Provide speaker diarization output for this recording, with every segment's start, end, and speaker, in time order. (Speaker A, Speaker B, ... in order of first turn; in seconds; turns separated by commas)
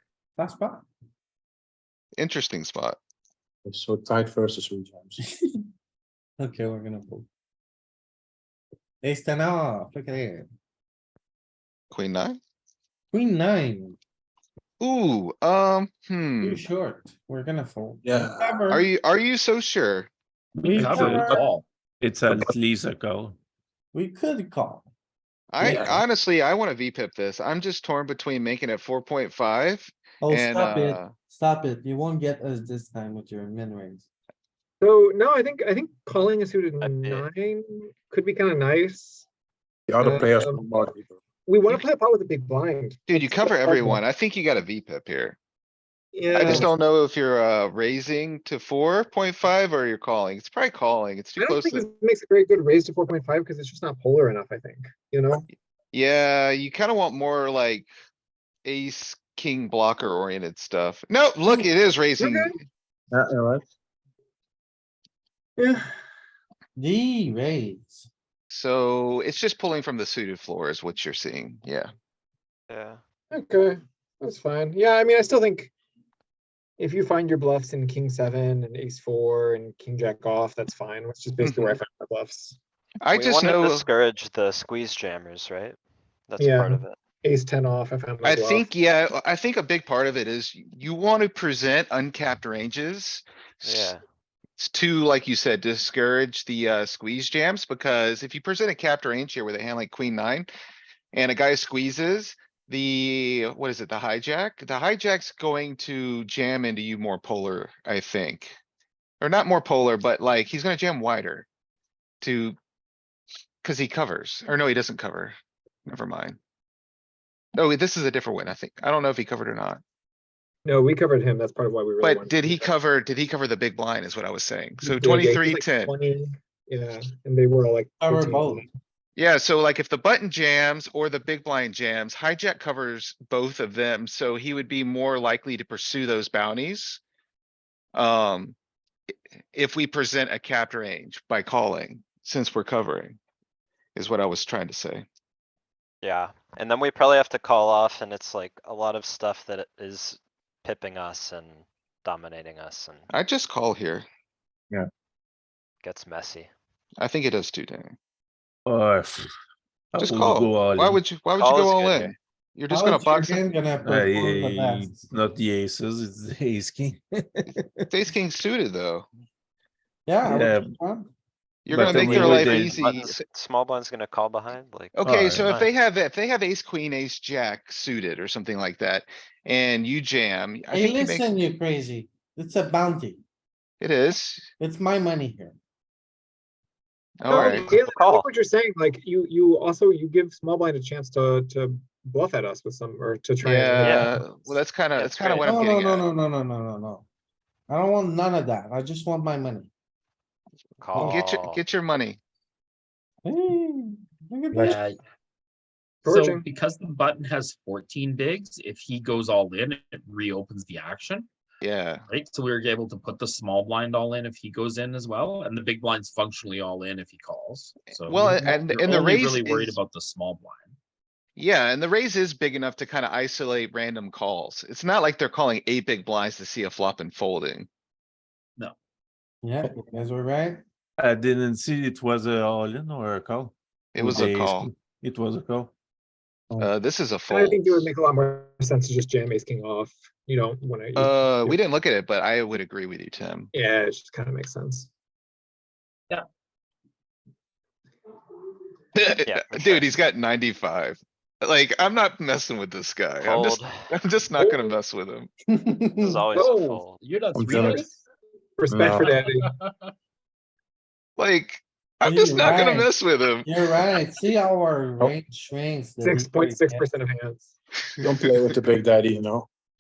Speaker A: 0.4-0.8, Speaker B: 2.2-3.0, Speaker C: 3.7-5.2, Speaker A: 6.4-7.3, Speaker A: 9.0-10.5, Speaker B: 11.9-12.4, Speaker A: 13.1-14.0, Speaker B: 14.8-16.6, Speaker A: 16.4-18.9, Speaker C: 18.0-18.6, Speaker B: 18.7-20.1, Speaker A: 20.6-21.4, Speaker D: 20.7-21.7, Speaker E: 20.7-21.3, Speaker E: 22.0-23.4, Speaker A: 23.9-24.9, Speaker B: 25.5-31.1, Speaker D: 25.6-25.9, Speaker A: 30.2-34.0, Speaker F: 34.8-39.3, Speaker G: 36.8-37.3, Speaker C: 39.9-41.1, Speaker F: 40.0-40.6, Speaker F: 41.5-44.0, Speaker B: 43.1-45.4, Speaker F: 46.1-46.7, Speaker B: 46.3-51.8, Speaker F: 51.4-55.5, Speaker B: 55.9-57.9, Speaker B: 58.6-62.6, Speaker F: 61.4-62.5, Speaker C: 63.1-63.6, Speaker A: 66.8-68.1, Speaker B: 68.5-71.9, Speaker G: 72.7-73.0, Speaker F: 73.3-75.7, Speaker F: 76.8-82.6, Speaker B: 81.4-81.8, Speaker B: 83.0-83.9, Speaker G: 83.1-85.8, Speaker G: 86.3-87.0, Speaker F: 86.4-88.7, Speaker B: 88.2-93.9, Speaker G: 93.6-94.0, Speaker B: 94.6-100.5, Speaker B: 101.1-108.6, Speaker B: 109.2-111.5, Speaker B: 112.2-112.6, Speaker B: 113.6-115.3, Speaker B: 115.9-116.4, Speaker B: 117.5-119.8, Speaker F: 120.7-122.7, Speaker B: 122.0-126.0, Speaker F: 124.8-128.7, Speaker A: 128.0-128.6, Speaker B: 129.2-137.0, Speaker B: 137.9-138.6, Speaker B: 139.5-143.2, Speaker B: 144.0-145.1, Speaker G: 146.0-153.1, Speaker B: 153.1-154.1, Speaker G: 155.8-156.5, Speaker B: 157.0-158.0, Speaker E: 158.7-159.3, Speaker E: 159.9-161.0, Speaker B: 160.0-163.4, Speaker G: 161.4-162.1, Speaker A: 162.7-165.0, Speaker E: 163.8-167.9, Speaker B: 167.9-169.1, Speaker A: 170.1-171.1, Speaker E: 170.2-170.7, Speaker B: 171.7-173.2, Speaker E: 171.7-172.8, Speaker A: 171.8-172.3, Speaker G: 171.9-175.7, Speaker B: 174.9-181.3, Speaker E: 175.0-175.5, Speaker A: 180.7-183.2, Speaker B: 183.8-184.5, Speaker A: 184.6-185.6, Speaker B: 187.2-187.8, Speaker F: 187.3-194.1, Speaker G: 187.5-188.3, Speaker B: 193.4-196.1, Speaker G: 193.8-194.2, Speaker G: 195.0-195.5, Speaker A: 195.4-197.1, Speaker A: 197.7-199.7, Speaker G: 200.8-201.6, Speaker A: 200.9-201.2, Speaker B: 201.0-202.2, Speaker A: 203.2-204.8, Speaker D: 204.5-205.0, Speaker F: 206.0-206.4, Speaker D: 206.1-211.3, Speaker B: 211.6-212.0, Speaker D: 212.1-220.8, Speaker B: 218.1-219.8, Speaker B: 221.4-227.7, Speaker A: 229.4-230.6, Speaker E: 231.0-235.7, Speaker B: 233.9-234.7, Speaker B: 236.6-237.9, Speaker F: 237.3-241.6, Speaker B: 240.9-243.5, Speaker F: 243.5-244.9, Speaker B: 248.9-255.3, Speaker G: 249.3-249.9, Speaker G: 253.2-253.8, Speaker F: 254.3-254.7, Speaker A: 255.5-256.3, Speaker G: 256.0-257.0, Speaker F: 256.3-256.7, Speaker D: 256.4-258.0, Speaker C: 257.4-257.9, Speaker F: 258.6-259.5, Speaker C: 258.7-259.1, Speaker D: 258.8-259.9, Speaker B: 261.2-263.5, Speaker A: 262.0-262.9, Speaker A: 263.4-266.9, Speaker F: 266.0-267.5, Speaker C: 268.0-269.5, Speaker B: 268.1-268.5